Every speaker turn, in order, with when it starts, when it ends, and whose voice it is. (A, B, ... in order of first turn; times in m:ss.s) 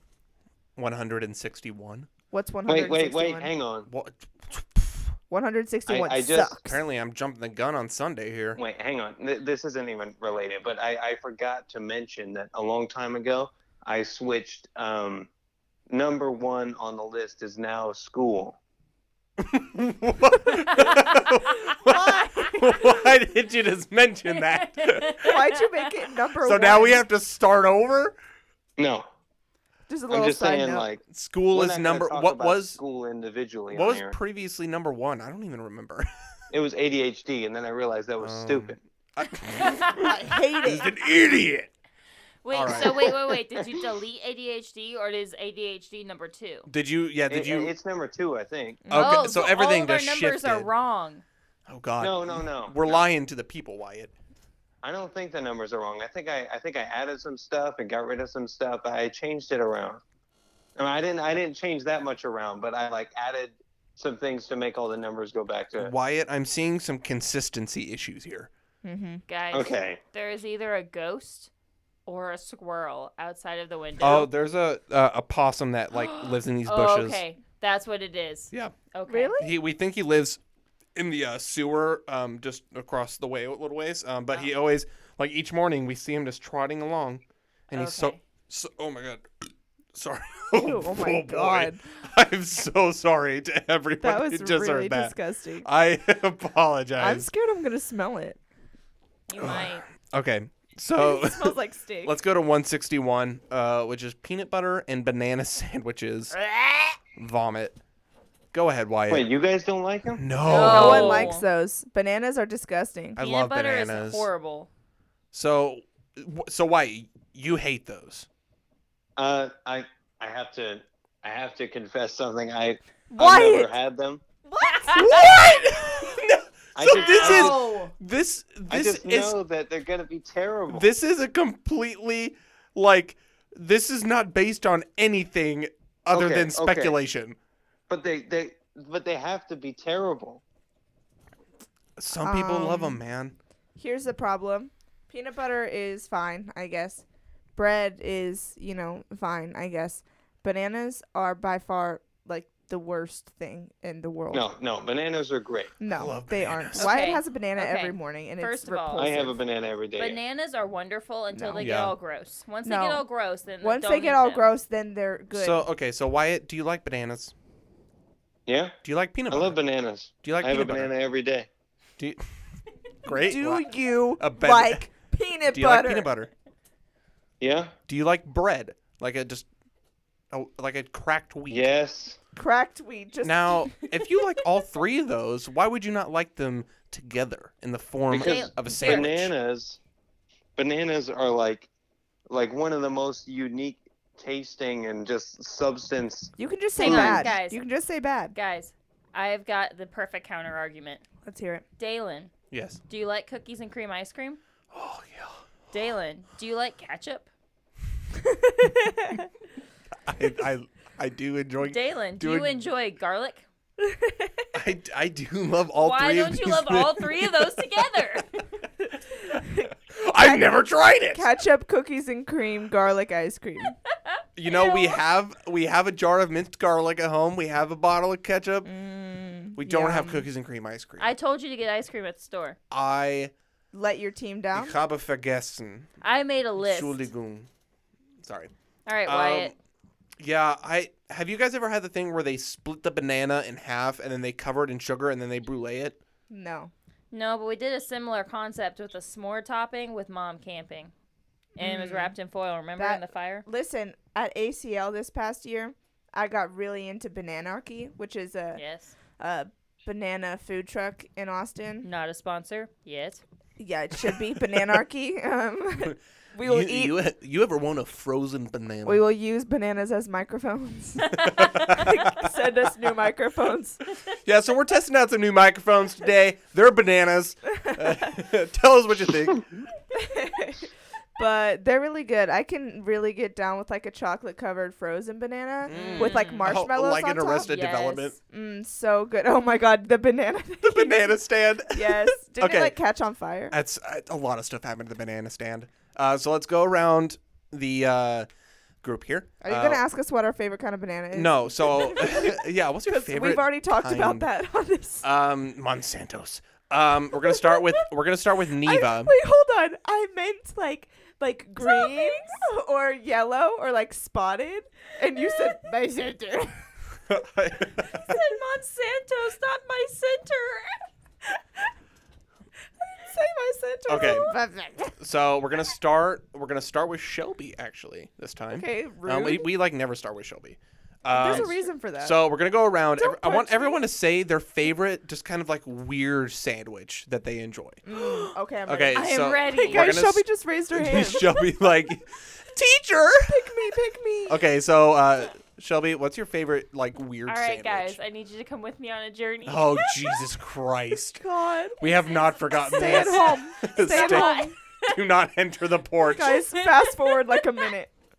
0:00.8-0:02.1 A
0:02.3-0:03.5 B
0:02.7-0:03.9 C
0:03.9-0:05.1 A
0:05.3-0:06.8 B
0:05.9-0:06.6 C
0:06.6-0:08.6 A
0:08.6-0:15.3 C
0:15.9-0:18.6 C
0:19.4-0:25.3 A
0:20.7-0:21.4 D
0:21.8-0:22.8 B
0:24.3-0:25.5 D
0:25.2-0:27.0 B
0:26.4-0:28.1 A
0:28.8-0:29.1 C
0:29.9-0:30.9 B
0:30.1-0:34.2 C
0:31.1-0:32.8 A
0:33.7-0:36.1 A
0:36.5-0:38.8 C
0:38.2-0:41.7 A
0:39.5-0:40.4 D
0:39.8-0:40.9 B
0:42.4-0:46.7 D
0:42.5-0:43.2 A
0:43.0-0:43.6 C
0:46.7-0:47.7 A
0:47.3-0:48.8 C
0:48.8-0:49.3 B
0:48.9-0:50.7 A
0:48.9-0:51.2 D
0:51.7-0:54.1 A
0:52.0-0:52.8 C
0:54.8-1:00.0 C
1:00.8-1:05.9 C
1:05.8-1:08.5 A
1:08.8-1:09.2 B
1:09.3-1:11.5 D
1:09.5-1:10.0 C
1:12.0-1:14.3 D
1:14.0-1:17.2 A
1:15.9-1:19.3 D
1:19.1-1:19.6 B
1:19.4-1:20.4 A
1:21.0-1:29.2 A
1:27.7-1:28.2 D
1:29.9-1:37.3 A
1:30.5-1:31.8 B
1:34.0-1:35.7 B
1:37.0-1:38.4 B
1:39.3-1:39.8 D
1:39.4-1:46.3 A
1:41.0-1:42.2 B
1:46.3-1:47.0 D
1:47.2-1:47.8 A
1:48.5-1:49.3 A
1:49.1-1:50.2 C
1:50.2-1:51.3 A
1:50.4-1:51.4 D
1:50.5-1:53.2 B
1:53.2-1:54.3 A
1:53.2-1:54.7 D
1:55.3-1:58.3 A
1:59.2-2:04.2 C
2:03.1-2:03.7 B
2:04.4-2:05.5 B
2:04.6-2:05.3 D
2:04.9-2:09.4 A
2:06.8-2:07.6 C
2:06.9-2:07.9 D
2:08.7-2:10.9 C
2:10.7-2:17.4 A
2:16.1-2:17.0 C
2:17.9-2:20.4 C
2:22.0-2:23.3 A
2:22.2-2:23.0 B
2:23.8-2:27.0 B
2:27.6-2:34.4 B
2:34.3-2:35.7 C
2:35.8-2:39.4 B
2:35.9-2:36.9 A
2:36.8-2:39.1 D
2:38.9-2:40.2 C
2:40.0-2:44.5 D
2:41.3-2:41.7 B
2:41.6-2:41.9 A
2:42.6-2:43.0 B
2:43.6-2:45.6 B
2:45.3-2:47.3 A
2:48.5-2:48.8 C
2:48.8-2:49.6 A
2:49.3-2:51.5 C
2:50.2-2:50.9 A
2:52.0-2:52.2 A
2:53.0-2:54.8 A
2:53.1-2:56.1 B
2:55.5-2:56.3 A
2:57.4-2:57.7 C
2:57.9-2:59.5 A
3:00.3-3:01.7 A
3:01.5-3:02.2 C
3:02.4-3:03.7 B
3:03.2-3:09.3 A
3:08.1-3:09.8 C
3:08.2-3:09.1 D
3:10.6-3:11.7 C
3:12.3-3:17.3 C
3:16.4-3:18.3 B
3:16.8-3:17.6 D
3:18.3-3:21.0 D
3:21.2-3:21.6 B
3:21.8-3:22.3 D
3:22.5-3:22.8 A
3:22.9-3:24.4 D
3:24.7-3:25.4 A
3:25.7-3:27.3 D
3:28.2-3:29.2 B
3:30.1-3:32.6 A
3:31.6-3:33.5 D
3:33.8-3:34.5 B
3:34.5-3:37.6 A
3:35.8-3:38.4 D
3:39.1-3:41.2 A
3:39.4-3:43.8 B
3:44.4-3:48.7 A
3:44.5-3:45.0 D
3:48.6-3:50.3 B
3:49.6-3:51.1 A
3:51.0-3:52.6 D
3:52.7-3:53.3 A
3:53.7-3:54.8 B
3:54.5-3:55.9 A
3:56.0-3:57.0 D
3:56.6-3:57.5 A
3:58.2-3:58.5 A
3:58.8-3:59.5 D
3:59.0-3:59.5 A
4:00.2-4:06.0 A
4:06.3-4:06.7 B
4:07.1-4:10.9 D
4:11.6-4:13.4 D
4:11.6-4:12.2 B
4:12.8-4:18.6 B
4:18.5-4:18.9 D
4:19.2-4:21.8 B
4:21.8-4:23.2 D
4:23.6-4:26.9 B
4:25.8-4:29.0 A
4:28.8-4:33.8 B
4:31.1-4:31.6 D
4:31.1-4:32.1 A
4:34.2-4:39.5 A
4:37.6-4:38.1 B
4:39.9-4:47.6 B
4:45.7-4:48.2 A
4:45.7-4:46.5 D
4:47.4-4:48.1 D
4:48.3-4:51.2 B
4:50.6-4:52.7 A
4:51.7-4:53.6 B
4:53.5-4:58.3 A
4:58.8-4:59.8 A
4:59.4-5:05.0 B
5:01.1-5:04.3 A
5:05.0-5:09.1 A
5:07.2-5:07.8 B
5:08.6-5:16.7 B
5:11.6-5:12.2 D
5:17.1-5:18.2 A
5:17.9-5:20.8 D
5:22.8-5:24.9 B
5:23.9-5:24.3 A
5:25.0-5:37.8 A
5:28.6-5:29.4 B
5:31.1-5:32.2 B
5:33.0-5:33.8 B
5:37.8-5:41.5 B
5:37.9-5:38.3 D
5:38.7-5:43.4 A
5:38.9-5:39.9 D
5:43.2-5:44.4 B
5:44.3-5:48.0 A
5:47.2-5:50.2 D
5:49.4-5:51.2 A
5:51.2-5:51.8 B
5:51.8-5:56.4 A
5:52.4-5:54.9 D
5:52.7-5:54.5 B
5:56.0-5:57.9 B
5:56.2-5:57.6 D